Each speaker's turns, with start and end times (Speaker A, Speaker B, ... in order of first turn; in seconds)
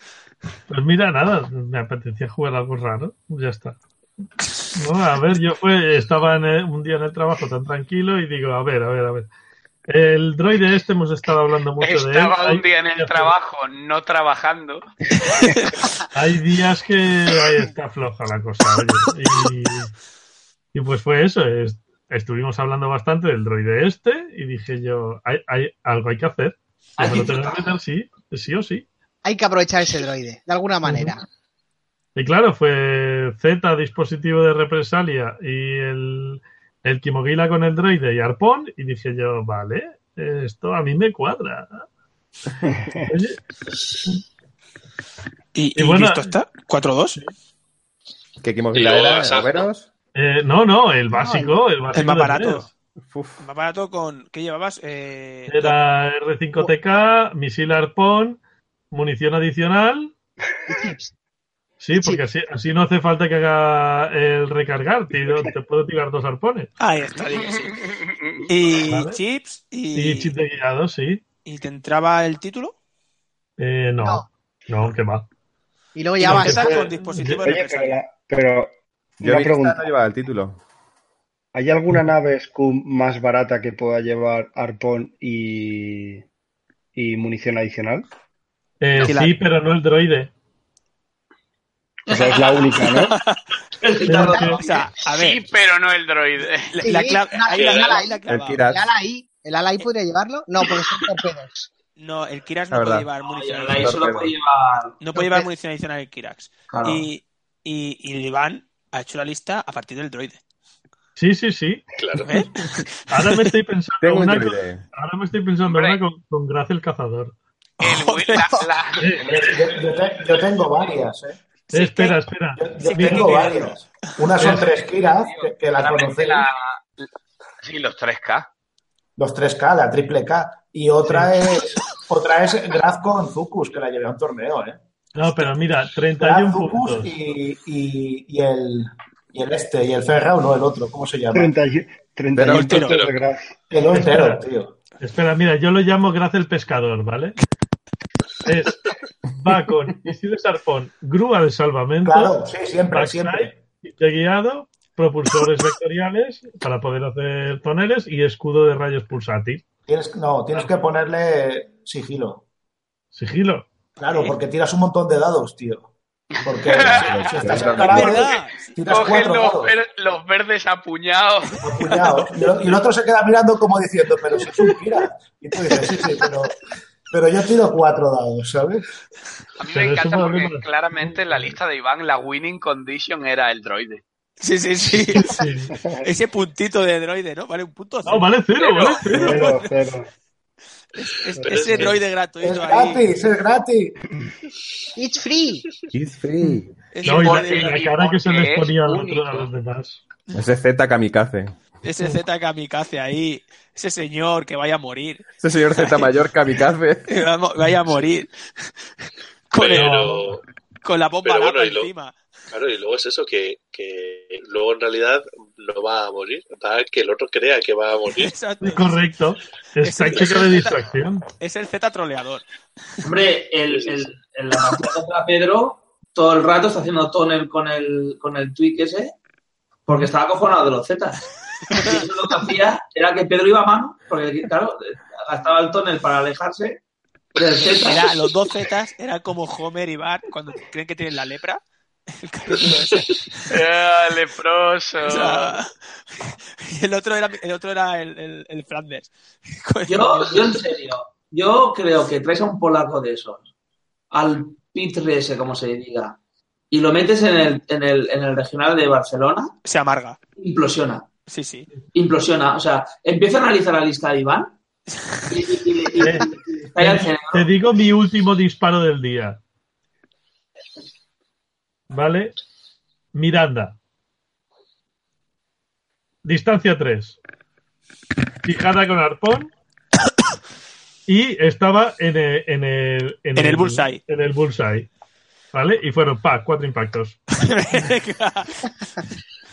Speaker A: 0.7-3.8, 4.7-9.3, 9.9-13.3, 16.1-19.9, 20.7-28.9, 30.8-31.1, 32.2-41.8, 43.1-43.4, 45.8-46.4, 50.1-52.7, 55.5-58.4, 58.9-60.1, 61.8-66.7, 68.9-69.2, 70.0-71.2, 73.6-75.3, 76.2-77.4, 88.8-90.3, 94.1-94.6, 111.2-111.8, 113.1-117.3, 119.0-119.3, 121.7-123.6, 124.4-124.7, 131.1-131.3, 135.2-137.1, 143.9-144.4, 145.0-147.4, 148.4-152.3, 152.9-159.7, 163.1-163.7, 179.7-181.6, 185.2-185.7, 188.1-189.6, 197.0-200.0, 209.7-210.4, 218.6-221.2, 266.0-269.4, 271.9-272.4, 273.1-273.8, 276.2-277.2, 278.4-279.5, 281.1-284.9, 285.5-287.3
Speaker B: 11.8-14.9, 67.6-68.5, 95.0-96.8, 97.6-98.0, 115.7-116.0, 117.8-119.8, 125.0-127.0, 127.6-128.5, 166.5-167.6, 168.9-171.6, 179.6-184.0, 188.6-189.0, 197.0-199.5, 243.5-245.6
Speaker C: 15.4-15.8, 45.5-47.2, 51.9-52.7, 53.4-55.8, 66.8-67.8, 68.5-70.3, 71.5-72.7, 76.2-78.0, 89.0-89.4, 93.1-93.4, 94.6-95.4, 96.7-98.6, 102.0-103.9, 105.0-110.4, 112.2-113.5, 117.8-118.5, 121.7-122.2, 123.0-123.7, 135.2-135.5, 142.5-143.0, 167.8-168.8, 184.4-185.3, 186.0-188.3, 189.1-189.7, 190.9-193.0, 196.9-197.8, 201.8-206.1, 207.1-208.3, 209.5-209.9, 210.8-212.2, 218.2-219.0, 219.8-220.9, 221.4-222.4, 231.7-232.0, 237.8-243.2, 245.0-250.6, 259.6-260.2, 261.3-261.7, 283.4-284.0, 287.4-289.0
Speaker D: 27.0-27.8, 92.1-93.0, 93.8-94.9, 103.2-105.0, 106.7-107.1, 223.0-229.1, 229.9-236.8, 237.4-238.1, 249.9-253.4, 254.1-256.2, 256.7-259.5, 260.4-261.1, 261.9-264.6, 265.3-267.5
Speaker E: 29.2-31.2, 51.1-51.5, 60.7-61.1, 62.0-62.2, 74.0-74.3, 76.0-76.9, 94.2-94.5, 96.8-101.7, 105.2-105.5, 194.9-195.7
Speaker F: 48.4-49.9, 53.1-53.4, 79.2-80.6, 98.3-98.9, 102.7-103.1, 103.8-104.3, 114.0-114.9, 142.3-142.9, 166.8-168.3, 195.9-196.9, 200.3-201.5, 205.4-207.1
Speaker G: 48.7-49.7, 112.0-112.4, 142.9-143.2, 191.4-192.0, 209.6-210.4, 211.2-211.9, 212.5-218.3, 223.7-224.0
Speaker H: 77.4-79.9, 81.5-86.2, 87.0-88.1, 92.1-93.2, 141.3-143.6, 189.1-190.1, 191.4-191.9
Speaker I: 119.2-121.4, 122.6-126.5, 129.2-134.8, 136.2-141.5, 143.7-144.7, 152.1-153.6, 159.9-162.4, 164.0-165.9, 166.4-169.7, 171.6-176.6, 177.1-178.9, 192.4-194.0